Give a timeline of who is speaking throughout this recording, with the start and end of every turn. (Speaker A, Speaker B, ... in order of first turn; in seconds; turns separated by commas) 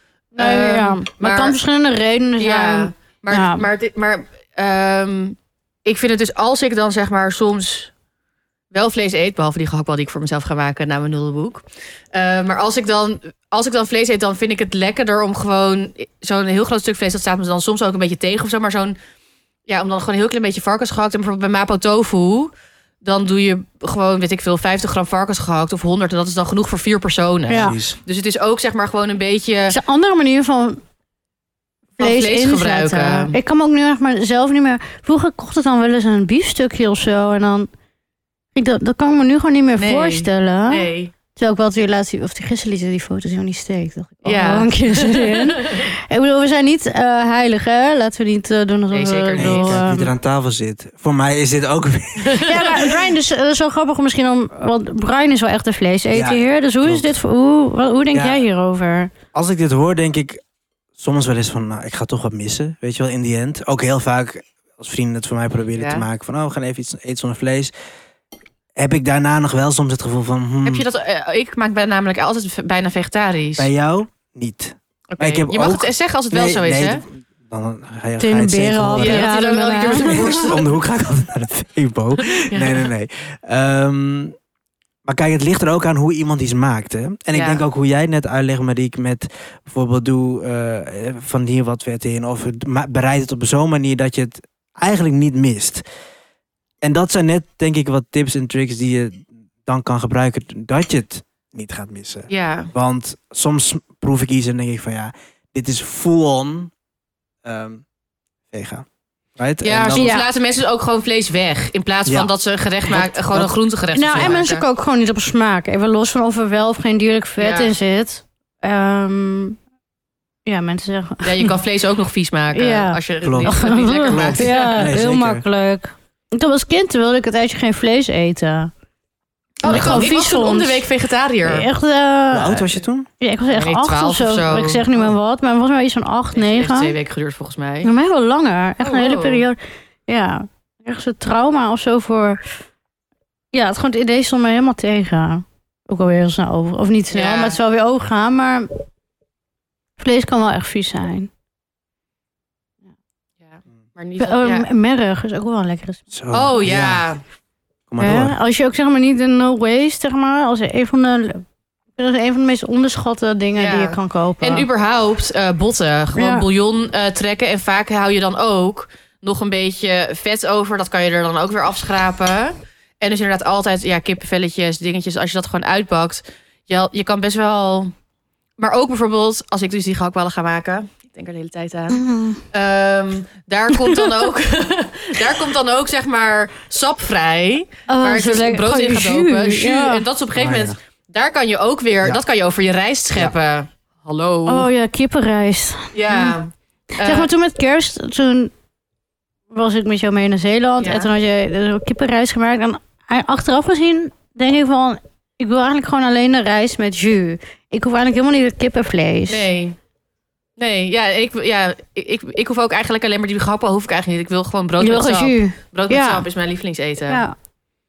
Speaker A: 0.3-3.7, Speaker B: 0.4-1.6, Speaker B: 2.4-7.9, Speaker B: 8.7-19.0, Speaker B: 19.7-29.8, Speaker A: 27.5-27.8, Speaker C: 27.5-28.0, Speaker A: 29.7-30.8, Speaker B: 32.0-33.4, Speaker A: 32.0-37.7, Speaker A: 38.5-50.1, Speaker B: 39.8-41.1, Speaker B: 44.2-45.9, Speaker B: 48.9-49.8, Speaker C: 49.4-52.9, Speaker B: 52.2-52.7, Speaker A: 52.4-59.1, Speaker C: 56.1-57.1, Speaker C: 58.1-58.4, Speaker C: 59.3-60.4, Speaker C: 61.0-67.7, Speaker B: 65.7-66.0, Speaker C: 68.8-70.8, Speaker B: 70.6-73.7, Speaker C: 73.6-79.3, Speaker B: 75.1-77.0, Speaker A: 78.2-80.5, Speaker B: 79.0-80.6, Speaker C: 79.9-84.3, Speaker B: 82.2-82.9, Speaker C: 85.0-95.8, Speaker B: 87.3-87.6, Speaker C: 96.8-106.7, Speaker B: 102.3-102.7, Speaker C: 107.4-107.8, Speaker C: 108.5-110.2, Speaker B: 109.6-114.6, Speaker A: 110.0-110.2, Speaker C: 112.0-112.3, Speaker C: 112.9-113.5, Speaker A: 113.9-119.6, Speaker C: 114.1-114.4, Speaker B: 117.4-117.7, Speaker A: 120.5-121.5, Speaker B: 121.2-124.9, Speaker A: 122.5-128.7, Speaker C: 123.2-125.4, Speaker B: 129.6-131.7, Speaker A: 129.6-130.8, Speaker A: 131.4-136.9, Speaker C: 132.3-133.1, Speaker B: 133.5-134.8, Speaker B: 136.3-137.9, Speaker A: 137.8-142.4, Speaker B: 138.8-139.4, Speaker A: 143.5-148.7, Speaker B: 147.1-147.6, Speaker A: 150.0-151.3, Speaker B: 153.4-154.7, Speaker A: 154.2-156.0, Speaker C: 156.1-157.0, Speaker B: 156.3-157.2, Speaker C: 157.9-158.3, Speaker A: 158.0-161.4, Speaker A: 162.0-164.7, Speaker B: 163.6-177.9, Speaker A: 166.2-166.4, Speaker B: 178.6-182.0, Speaker A: 181.9-182.4, Speaker B: 182.5-194.7, Speaker A: 187.9-190.0, Speaker C: 190.3-190.8, Speaker A: 194.5-196.4, Speaker B: 195.9-197.3, Speaker A: 196.9-198.5, Speaker A: 199.5-209.5, Speaker B: 200.8-201.1, Speaker B: 209.3-209.8, Speaker B: 210.6-217.2, Speaker A: 214.8-216.2, Speaker A: 217.1-217.3